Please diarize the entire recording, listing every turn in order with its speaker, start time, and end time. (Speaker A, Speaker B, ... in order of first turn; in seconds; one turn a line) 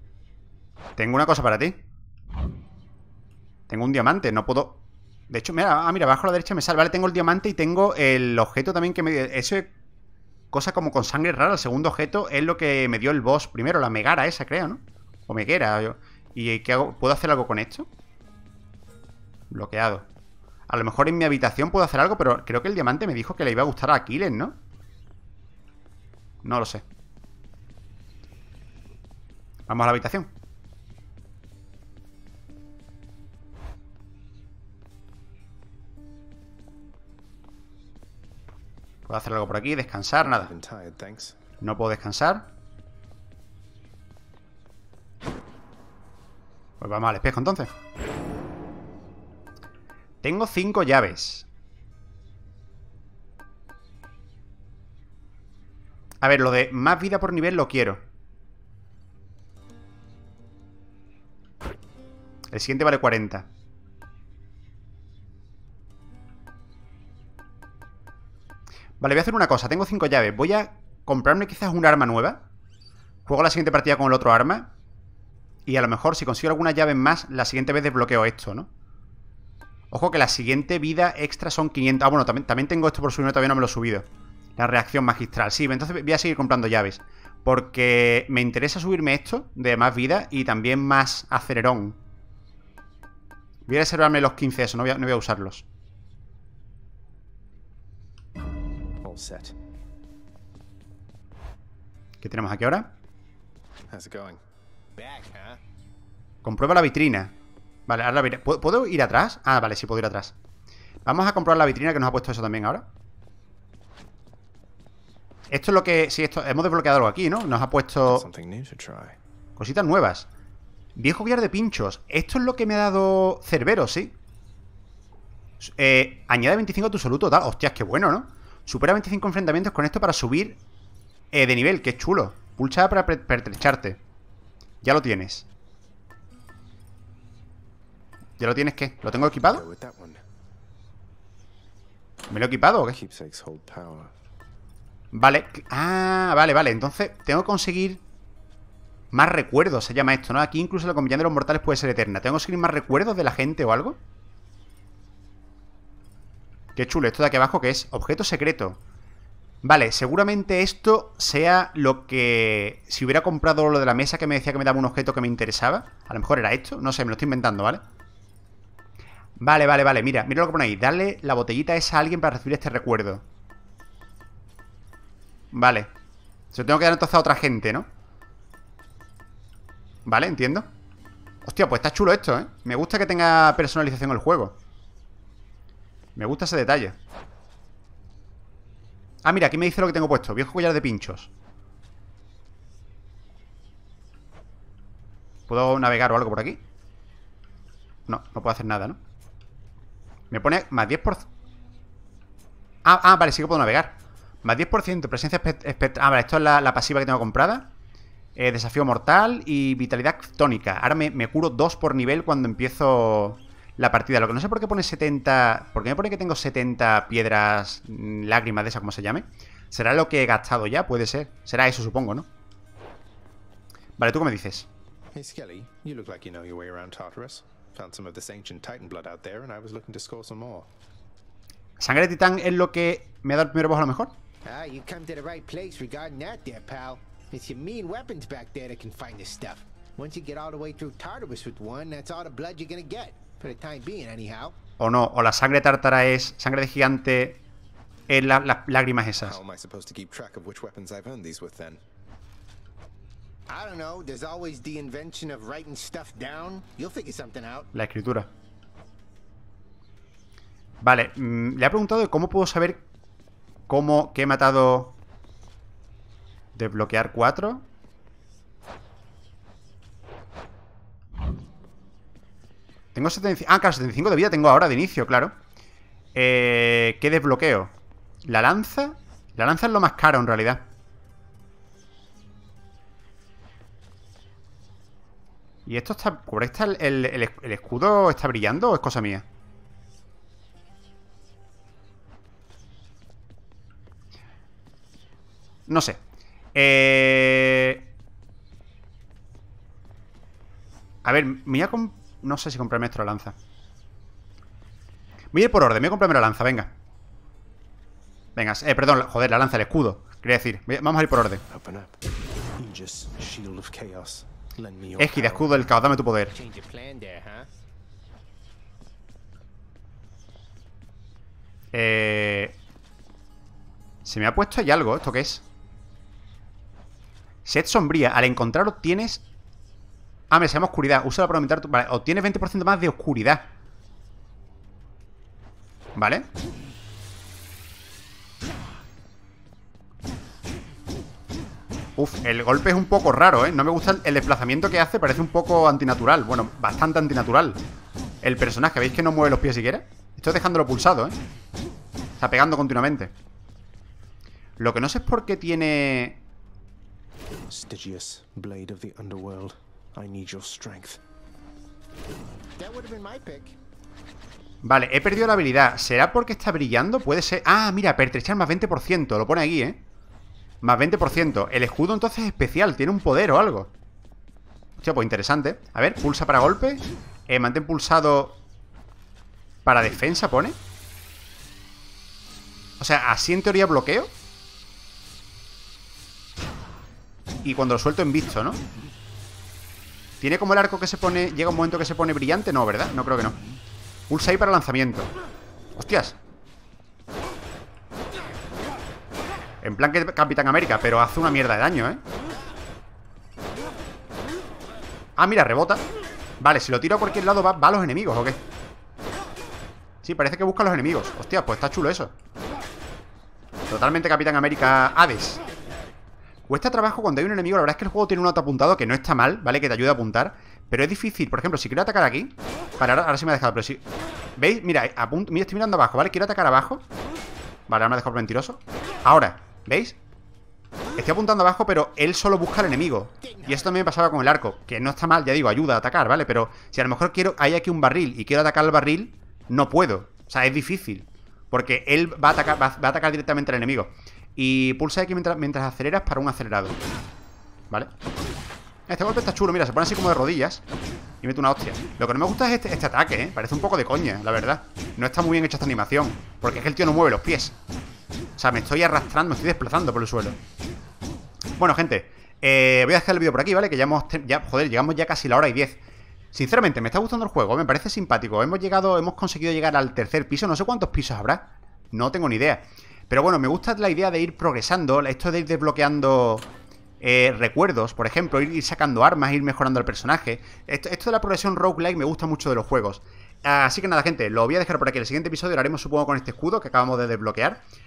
Speaker A: 1.0-1.8
Speaker A: 3.7-4.8
Speaker A: 5.3-9.7
Speaker A: 10.5-17.9
Speaker A: 19.5-20.1
Speaker A: 20.7-24.6
Speaker A: 26.4-26.8
Speaker A: 29.7-30.3
Speaker A: 39.1-40.5
Speaker B: 40.2-41.4
Speaker A: 41.6-42.5
Speaker A: 46.8-47.7
Speaker A: 50.2-51.5
Speaker A: 56.2-58.0
Speaker A: 62.5-63.5
Speaker A: 69.0-72.4
Speaker A: 73.3-74.7
Speaker A: 75.7-78.7
Speaker A: 79.9-84.1
Speaker A: 84.6-92.0
Speaker A: 93.7-95.7
Speaker B: 99.0-99.5
Speaker A: 102.2-102.9
Speaker B: 103.9-104.4
Speaker C: 105.0-105.6
Speaker A: 106.4-107.3
Speaker A: 107.9-110.3
Speaker A: 111.1-112.9
Speaker A: 115.5-118.3
Speaker B: 118.0-119.2
Speaker A: 119.6-120.3
Speaker A: 121.0-124.1
Speaker A: 125.6-130.6
Speaker A: 131.3-134.0
Speaker A: 134.8-135.5
Speaker A: 138.4-139.6
Speaker B: 139.4-140.2
Speaker A: 142.3-143.0
Speaker B: 142.9-144.1
Speaker A: 145.1-148.0
Speaker A: 149.1-154.0
Speaker A: 156.8-158.8
Speaker A: 159.6-167.8
Speaker A: 169.4-173.2
Speaker A: 175.5-175.9
Speaker A: 176.5-177.9
Speaker A: 180.1-180.7
Speaker A: 181.5-184.6
Speaker A: 186.2-186.9
Speaker A: 189.2-191.3
Speaker A: 195.5-196.6
Speaker A: 198.1-199.0
Speaker A: 200.3-201.3
Speaker A: 202.9-207.7
Speaker A: 208.4-222.3
Speaker A: 224.0-224.7
Speaker B: 225.1-230.7
Speaker A: 231.8-234.1
Speaker C: 234.4-244.6
Speaker A: 244.8-247.4
Speaker A: 248.1-249.4
Speaker B: 249.2-251.8
Speaker C: 253.5-257.7
Speaker A: 257.7-258.3
Speaker A: 260.8-262.8
Speaker A: 263.7-265.0
Speaker A: 266.6-267.6
Speaker A: 272.9-275.3
Speaker A: 276.1-277.7
Speaker A: 278.3-280.6
Speaker A: 285.7-289.2
Speaker A: 295.7-296.0
Speaker A: 296.6-297.9
Speaker A: 301.1-303.4
Speaker A: 305.3-306.7
Speaker A: 308.4-311.4
Speaker B: 311.5-312.0
Speaker B: 312.6-315.6
Speaker A: 315.0-316.3
Speaker C: 316.3-317.5
Speaker A: 321.7-322.6
Speaker A: 324.1-325.4
Speaker A: 327.4-329.2
Speaker A: 330.3-333.4
Speaker A: 336.0-336.3
Speaker A: 342.0-347.6
Speaker A: 348.2-351.1
Speaker A: 352.2-353.1
Speaker A: 354.6-356.2
Speaker B: 357.5-361.0
Speaker C: 362.6-363.6
Speaker A: 364.6-369.8
Speaker A: 370.6-373.7
Speaker A: 374.8-378.4
Speaker A: 379.6-380.6
Speaker A: 382.8-384.1
Speaker A: 387.4-388.6
Speaker A: 390.2-393.4
Speaker A: 394.1-395.1
Speaker A: 395.8-396.2
Speaker A: 399.6-402.0
Speaker A: 405.2-405.8
Speaker A: 406.4-408.4
Speaker A: 410.0-412.1
Speaker A: 413.7-415.4
Speaker A: 416.5-423.8
Speaker A: 424.4-426.8
Speaker A: 427.7-430.0
Speaker A: 431.0-446.8
Speaker C: 433.2-433.8
Speaker A: 448.9-450.6
Speaker A: 451.2-457.6
Speaker A: 458.4-460.4
Speaker A: 461.6-465.8
Speaker A: 466.3-476.5
Speaker A: 477.0-487.6